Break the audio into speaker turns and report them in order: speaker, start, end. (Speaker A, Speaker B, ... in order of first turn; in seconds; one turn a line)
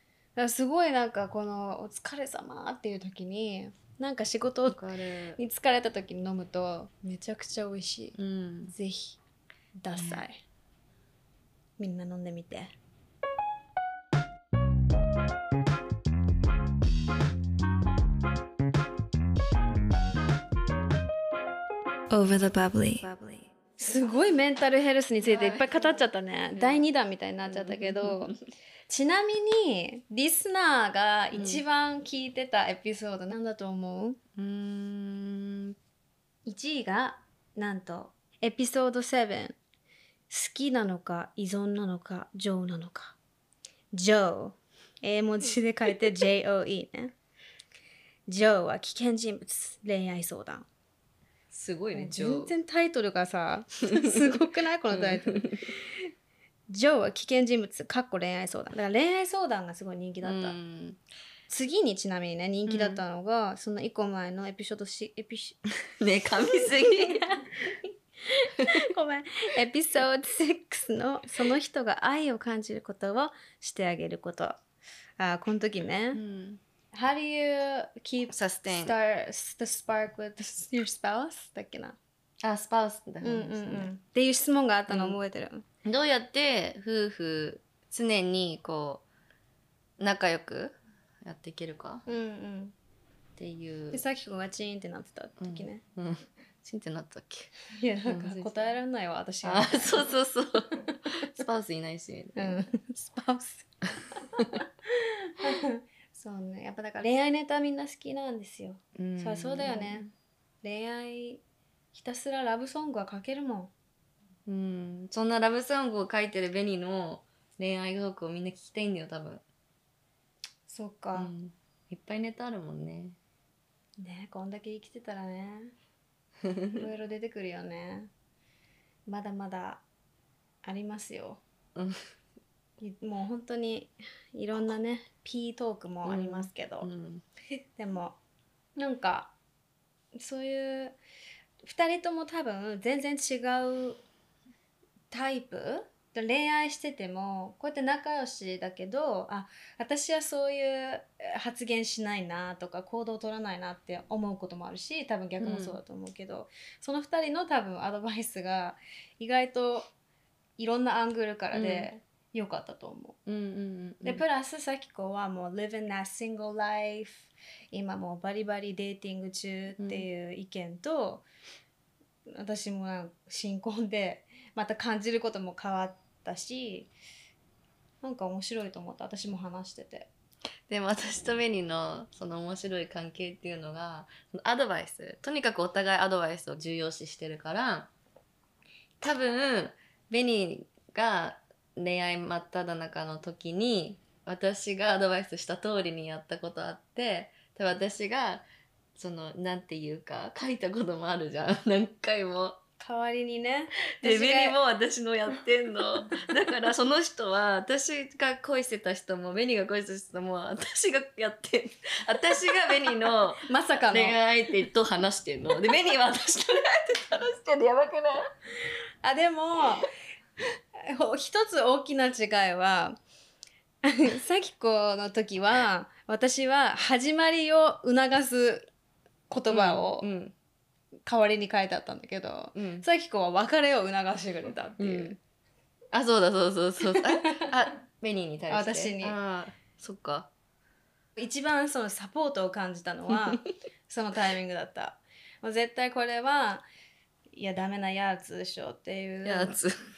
Speaker A: 0.3-4.8
Speaker B: 4.7-5.4
Speaker A: 5.4-8.2
Speaker B: 8.2-8.7
Speaker A: 8.7-9.2
Speaker A: 9.8-10.4
Speaker B: 9.9-10.2
Speaker A: 11.8-12.7
Speaker A: 22.1-28.3
Speaker B: 25.2-26.8
Speaker B: 27.4-28.4
Speaker A: 28.9-34.2
Speaker B: 31.3-31.6
Speaker B: 34.4-35.8
Speaker A: 36.5-39.6
Speaker A: 40.3-43.2
Speaker A: 43.9-47.1
Speaker A: 48.3-50.7
Speaker B: 51.5-52.5
Speaker A: 51.9-56.1
Speaker B: 53.9-54.3
Speaker B: 54.9-55.6
Speaker A: 56.7-60.5
Speaker B: 60.2-61.0
Speaker A: 61.5-65.6
Speaker B: 62.7-63.0
Speaker B: 65.9-67.2
Speaker A: 66.3-74.6
Speaker A: 75.2-76.2
Speaker B: 76.1-76.6
Speaker A: 76.9-82.0
Speaker B: 78.3-78.9
Speaker B: 82.4-83.9
Speaker A: 83.2-85.6
Speaker B: 84.9-85.2
Speaker B: 85.8-89.0
Speaker B: 90.0-92.0
Speaker A: 92.1-92.7
Speaker B: 93.4-94.0
Speaker A: 93.9-95.8
Speaker B: 95.4-97.5
Speaker A: 97.7-100.1
Speaker B: 98.0-98.7
Speaker B: 99.4-102.7
Speaker A: 102.3-110.1
Speaker B: 109.0-110.1
Speaker A: 110.6-111.4
Speaker A: 111.9-113.7
Speaker B: 114.5-119.4
Speaker A: 120.7-121.3
Speaker B: 121.1-123.2
Speaker A: 124.0-125.7
Speaker B: 126.4-126.8
Speaker A: 126.7-128.1
Speaker A: 129.1-129.8
Speaker A: 130.6-131.4
Speaker B: 131.7-132.0
Speaker A: 132.8-136.9
Speaker B: 136.0-137.2
Speaker A: 137.8-138.2
Speaker A: 138.8-139.3
Speaker A: 140.1-141.0
Speaker A: 141.6-144.0
Speaker A: 145.1-159.9
Speaker B: 155.4-155.8
Speaker A: 160.6-163.2
Speaker B: 161.5-161.9
Speaker B: 163.2-164.2
Speaker A: 164.0-171.2
Speaker B: 169.8-170.1
Speaker A: 172.3-176.9
Speaker A: 178.0-180.1
Speaker B: 180.7-187.9
Speaker B: 189.0-198.4
Speaker B: 198.9-202.6
Speaker A: 202.8-204.6
Speaker B: 204.0-218.2
Speaker A: 213.1-214.2
Speaker A: 219.0-219.9
Speaker A: 220.8-223.0
Speaker A: 223.8-228.7
Speaker A: 229.3-230.1
Speaker B: 229.5-230.3
Speaker A: 231.1-235.2
Speaker B: 232.5-232.8
Speaker B: 234.8-235.2
Speaker B: 235.9-240.3
Speaker A: 236.9-237.5
Speaker A: 238.5-239.2
Speaker A: 241.2-246.7
Speaker A: 247.3-249.6
Speaker B: 249.2-249.7